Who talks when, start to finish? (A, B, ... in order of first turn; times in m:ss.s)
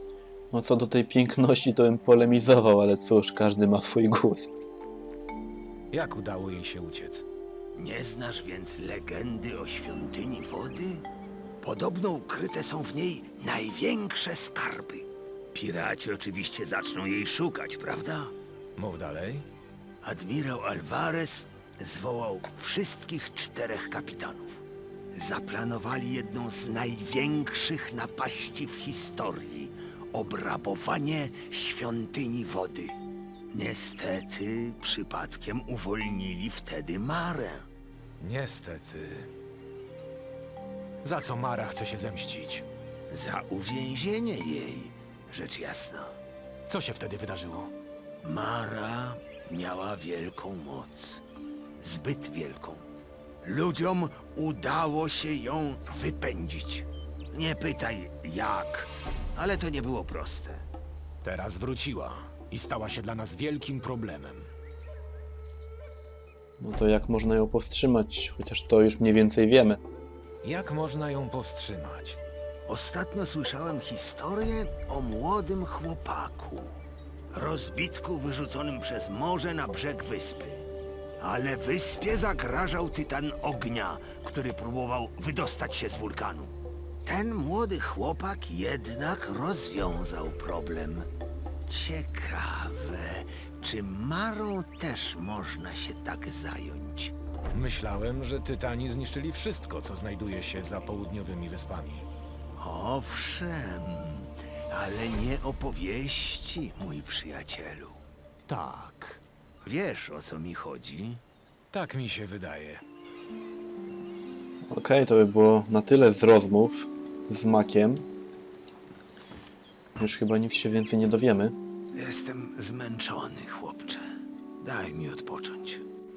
0:00.5-0:04.6 A
0:05.9-0:07.2 B
0:07.8-0:11.1 C
0:11.6-0:18.3 C
0:18.8-0:19.5 B
0:20.0-0:24.6 C
0:25.1-0:33.0 C
0:33.5-0:37.7 C
0:38.2-0:39.3 B
0:41.0-0:42.6 B
0:43.1-0:46.2 C
0:46.7-0:47.7 B
0:48.2-0:51.2 C
0:51.8-0:52.9 C
0:53.4-1:00.7 C
1:01.2-1:04.5 B
1:06.6-1:09.8 A
1:10.4-1:12.2 B
1:12.7-1:16.8 C
1:17.3-1:20.6 C
1:21.2-1:31.1 C
1:31.7-1:37.1 C
1:37.5-1:42.1 B
1:42.6-1:48.0 C
1:48.5-1:49.2 B
1:49.6-1:51.2 C
1:51.7-1:52.8 B
1:54.7-1:58.1 A
2:00.0-2:01.6 A
2:02.0-2:04.0 C
2:04.6-2:05.8 C